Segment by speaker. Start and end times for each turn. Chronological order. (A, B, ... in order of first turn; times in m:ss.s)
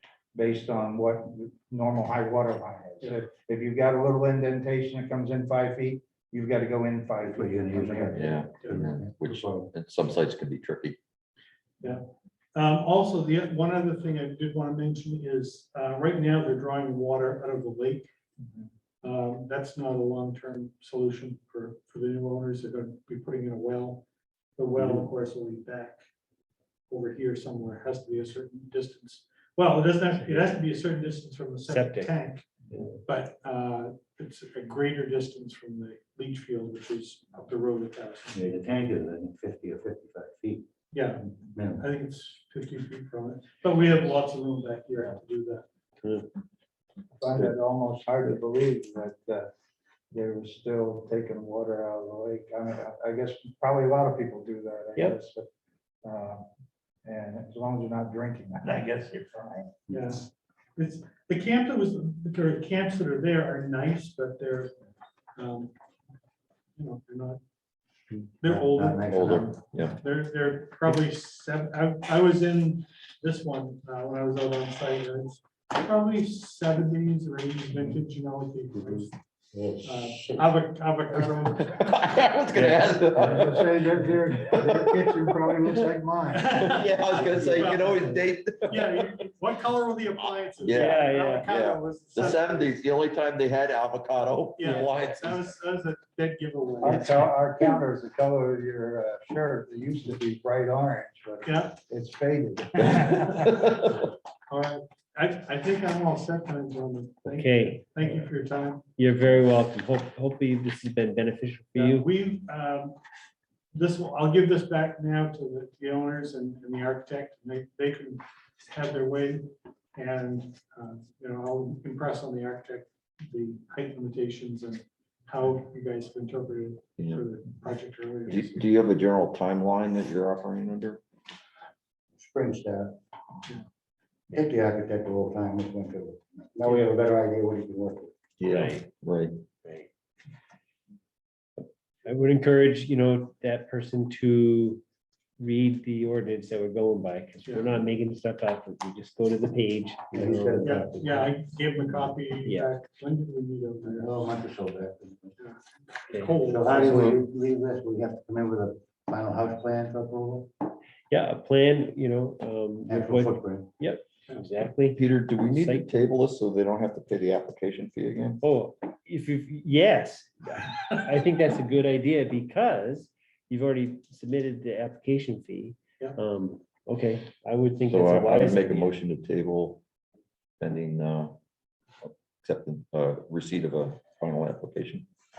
0:00.3-0:08.2 A
0:07.2-0:09.7 B
0:08.2-0:11.0 C
0:12.6-0:18.1 D
0:19.0-0:24.0 D
0:24.6-0:26.0 D
0:26.9-0:32.5 D
0:30.2-0:30.5 E
0:31.7-0:32.1 E
0:33.1-0:38.4 D
0:38.3-0:40.7 B
0:40.9-0:45.6 D
0:41.4-0:41.9 B
0:46.0-0:46.3 E
0:47.2-0:49.5 A
0:50.1-0:55.5 A
0:56.0-0:56.5 A
0:57.0-0:59.7 A
0:59.9-1:04.7 D
1:05.4-1:05.7 D
1:06.8-1:07.4 D
1:08.1-1:09.5 B
1:08.4-1:19.1 D
1:09.1-1:10.0 C
1:18.8-1:20.5 B
1:19.8-1:22.0 D
1:21.6-1:25.4 C
1:22.5-1:26.6 A
1:26.3-1:32.8 D
1:26.5-1:29.1 C
1:27.2-1:27.7 A
1:30.6-1:35.4 C
1:30.8-1:31.5 E
1:34.6-1:37.4 D
1:36.8-1:43.6 A
1:41.4-1:41.8 D
1:43.0-1:43.5 D
1:44.5-1:48.9 D
1:47.3-1:48.0 E
1:49.0-1:52.1 E
1:51.8-1:53.0 D
1:53.7-2:08.6 D
2:07.0-2:07.3 C
2:08.3-2:11.0 C
2:12.2-2:13.0 B
2:14.3-2:18.1 B
2:18.4-2:19.4 C
2:18.5-2:18.8 E
2:21.6-2:24.8 E
2:25.4-2:30.8 E
2:27.4-2:27.7 D
2:30.1-2:31.4 B
2:30.6-2:34.1 D
2:32.4-2:32.7 E
2:33.8-2:35.4 B
2:35.4-2:37.2 D
2:36.1-2:36.4 E
2:36.4-2:40.7 B
2:41.1-2:45.9 E
2:42.8-2:43.7 B
2:45.0-2:48.4 C
2:48.4-2:58.9 E
2:57.9-2:59.8 C
3:00.6-3:01.4 C
3:02.0-3:05.1 C